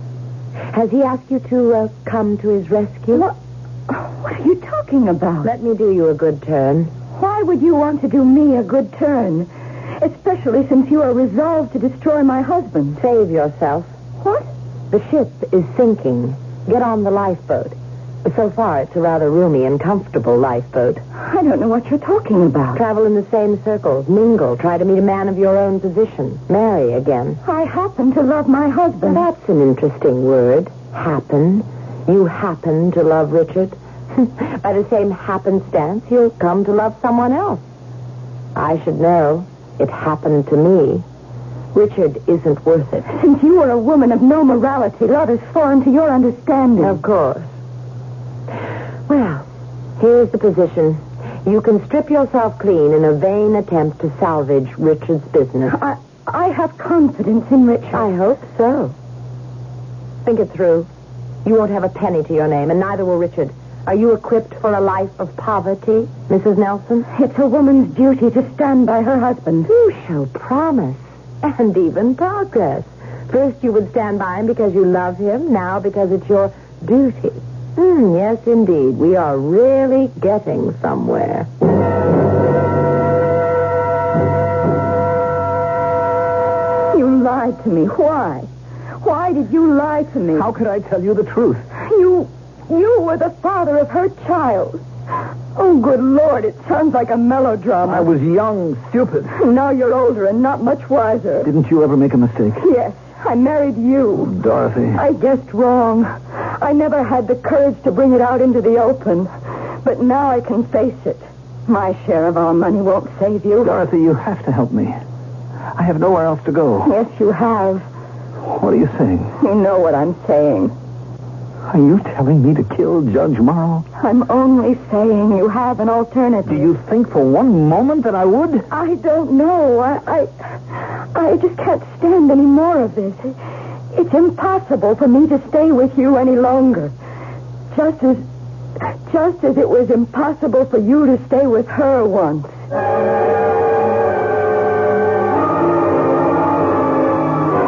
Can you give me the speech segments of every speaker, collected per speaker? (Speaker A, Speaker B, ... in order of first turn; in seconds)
Speaker A: 0.7-3.2, 5.4-6.9, 13.0-13.9, 14.9-21.0, 22.7-27.4, 29.0-37.6, 38.5-41.0, 41.7-43.1, 46.8-47.5, 49.1-49.4, 50.0-55.8, 57.9-58.9, 60.2-60.9, 61.4-67.1, 69.6-81.5
Speaker B: 3.9-5.5, 7.1-13.0, 14.2-14.5, 21.2-22.8, 27.4-29.2, 43.1-47.0, 55.7-58.1, 67.1-69.7, 86.9-88.5, 89.0-90.5, 91.8-94.8, 95.5-98.1, 99.3-101.5, 102.6-104.4, 104.9-109.3, 109.8-113.8, 116.8-117.8, 119.4-120.7, 124.0-126.7, 128.7-133.4, 133.9-136.9, 137.7-138.2, 139.1-142.5
Speaker C: 90.3-91.7, 97.8-99.4, 101.4-102.6, 104.2-105.0, 113.6-115.0, 115.7-116.9, 118.4-119.4, 121.6-123.8, 126.4-128.7